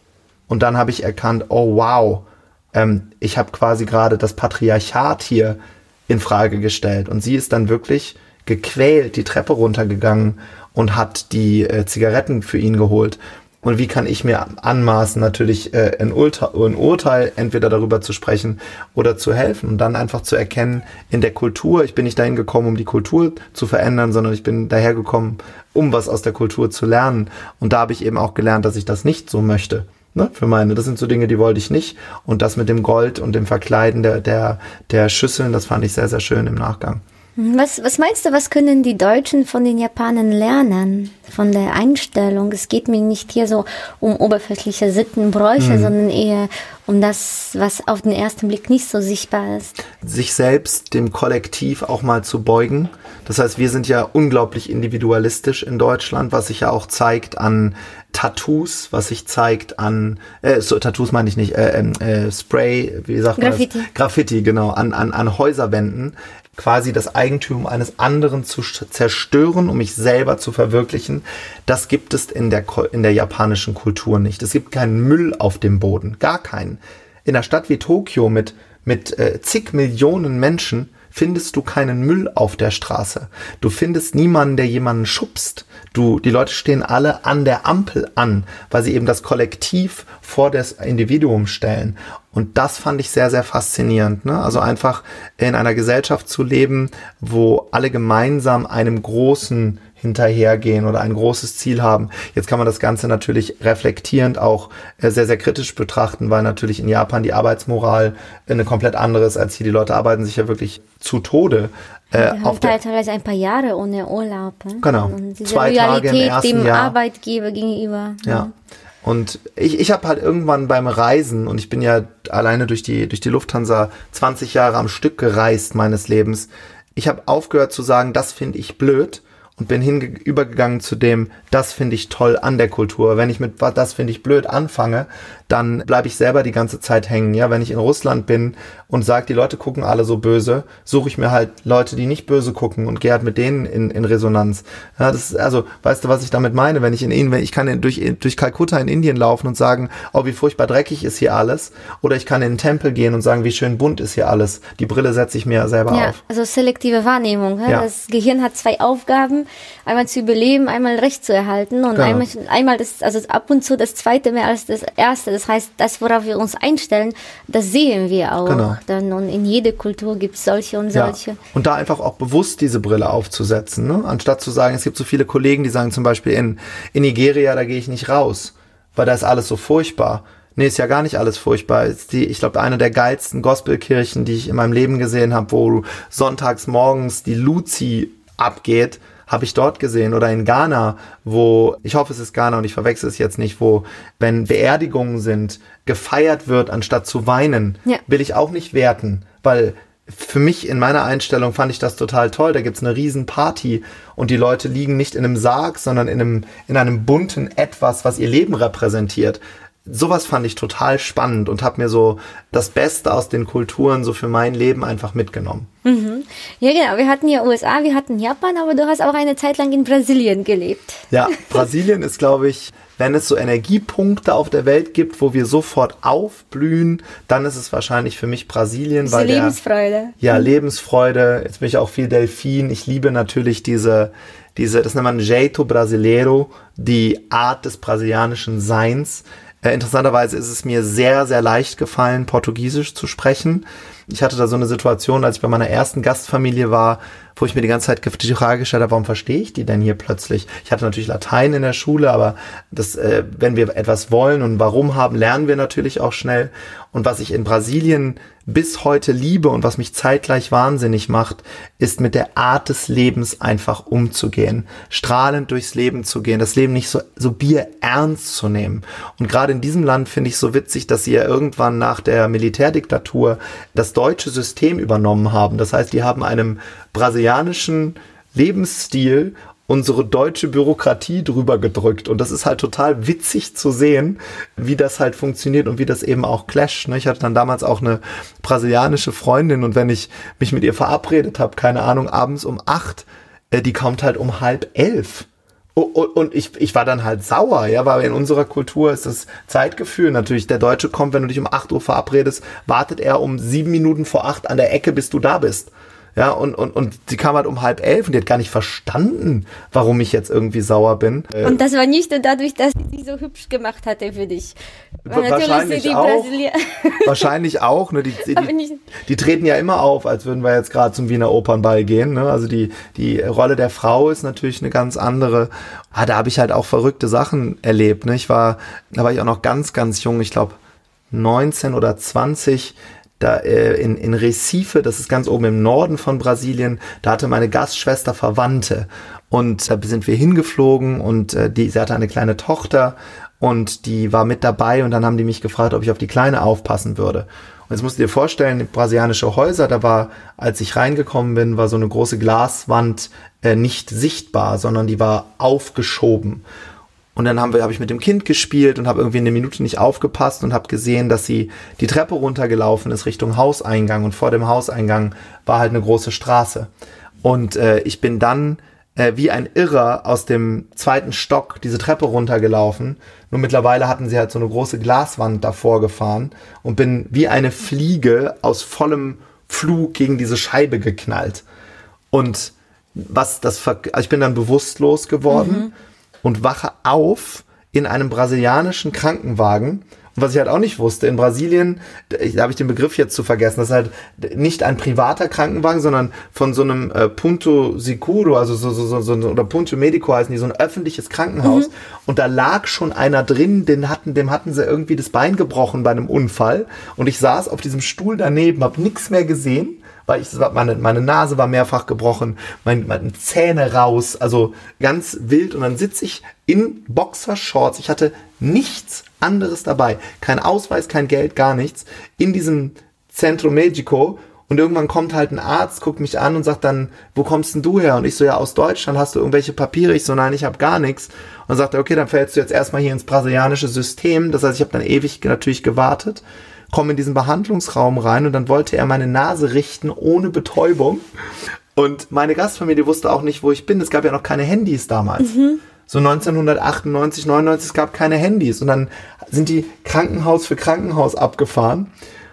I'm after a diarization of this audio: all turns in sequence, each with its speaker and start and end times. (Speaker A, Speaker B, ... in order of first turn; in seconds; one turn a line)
Speaker A: 0.5-37.0
Speaker B: 37.4-49.8
Speaker A: 45.6-45.9
Speaker A: 50.0-112.8
Speaker B: 63.4-63.9
Speaker B: 112.1-118.5
Speaker A: 114.8-117.0
Speaker A: 118.2-118.5
Speaker A: 119.0-156.2
Speaker B: 155.9-171.4
Speaker A: 162.0-162.2
Speaker A: 168.4-168.8
Speaker A: 170.9-215.7
Speaker B: 215.8-221.6
Speaker A: 221.1-229.6
Speaker B: 229.0-230.4
Speaker A: 230.2-311.6
Speaker B: 311.4-314.6
Speaker A: 315.1-316.3
Speaker B: 315.1-317.2
Speaker A: 317.0-330.6
Speaker B: 318.2-318.8
Speaker A: 331.1-356.4
Speaker A: 357.2-366.7
Speaker A: 367.2-381.4
Speaker A: 382.1-385.7
Speaker B: 385.3-385.7
Speaker A: 386.2-441.0
Speaker B: 401.4-401.7
Speaker A: 441.8-445.4
Speaker B: 445.2-445.6
Speaker A: 445.9-451.9